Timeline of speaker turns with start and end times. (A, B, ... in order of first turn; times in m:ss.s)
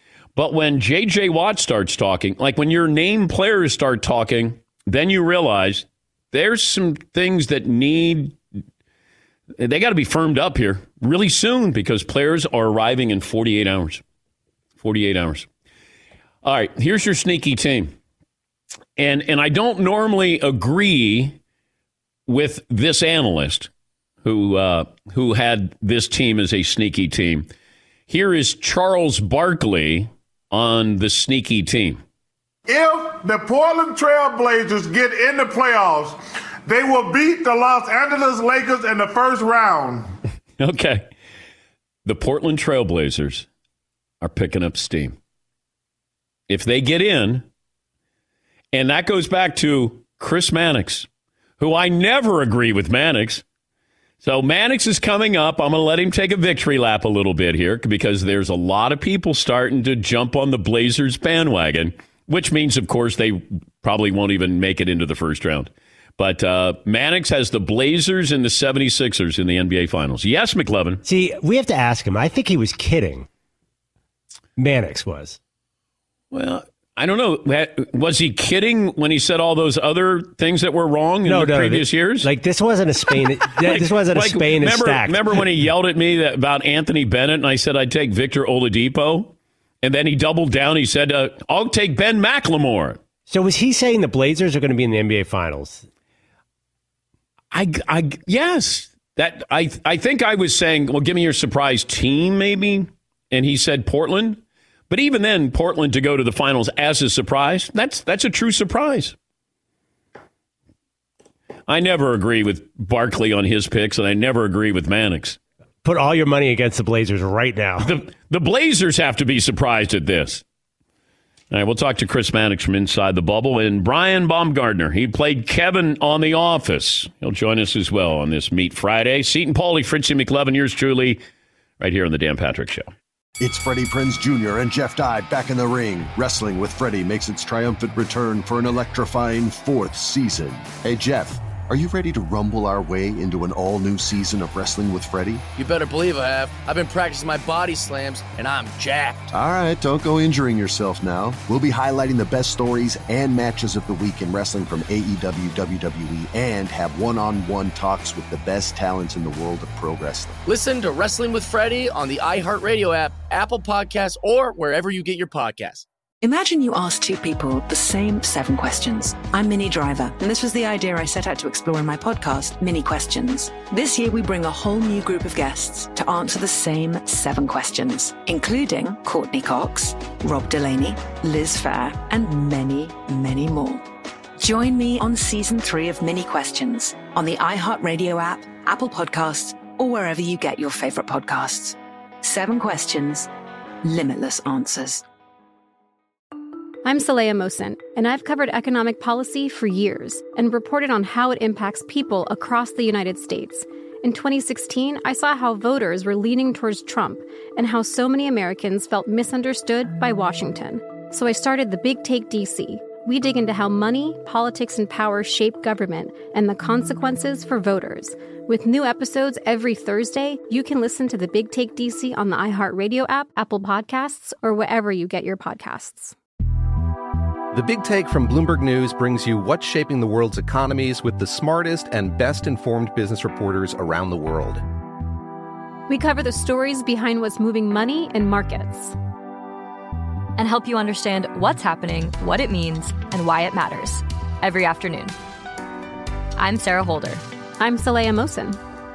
0:00.4-0:08.4 A
0:09.6-0:14.0 A
0:14.8-0:15.5 A
0:16.4-0:17.9 A
0:19.0-0:21.4 A
0:22.3-0:23.7 A
0:24.2-0:27.5 A
0:28.1-0:32.0 A
0:32.7-0:40.1 B
0:40.6-0:41.0 A
0:42.0-0:43.5 A
0:44.2-0:45.2 A
0:46.5-0:47.4 A
0:48.7-0:51.1 A
0:51.6-0:53.4 A
0:54.2-1:11.0 A
1:11.0-1:13.2 C
1:14.6-1:15.4 C
1:16.3-1:22.3 A
1:21.2-1:25.4 C
1:23.6-1:33.0 A
1:33.3-1:35.8 C
1:37.5-1:49.1 A
1:51.7-1:55.4 A
1:55.8-1:57.9 C
1:57.8-2:00.4 A
2:01.5-2:11.2 A
2:11.8-2:12.9 A
2:13.4-2:25.4 D
2:25.5-2:29.3 E
2:29.3-2:40.4 D
2:40.4-2:45.8 E
2:46.2-3:03.8 F
3:04.4-3:13.3 F
3:13.8-3:15.0 F
3:16.8-3:46.1 G
3:47.5-3:54.6 H
3:55.9-3:59.0 G
4:00.4-4:05.1 I
4:06.4-4:07.2 I
4:07.6-4:08.6 G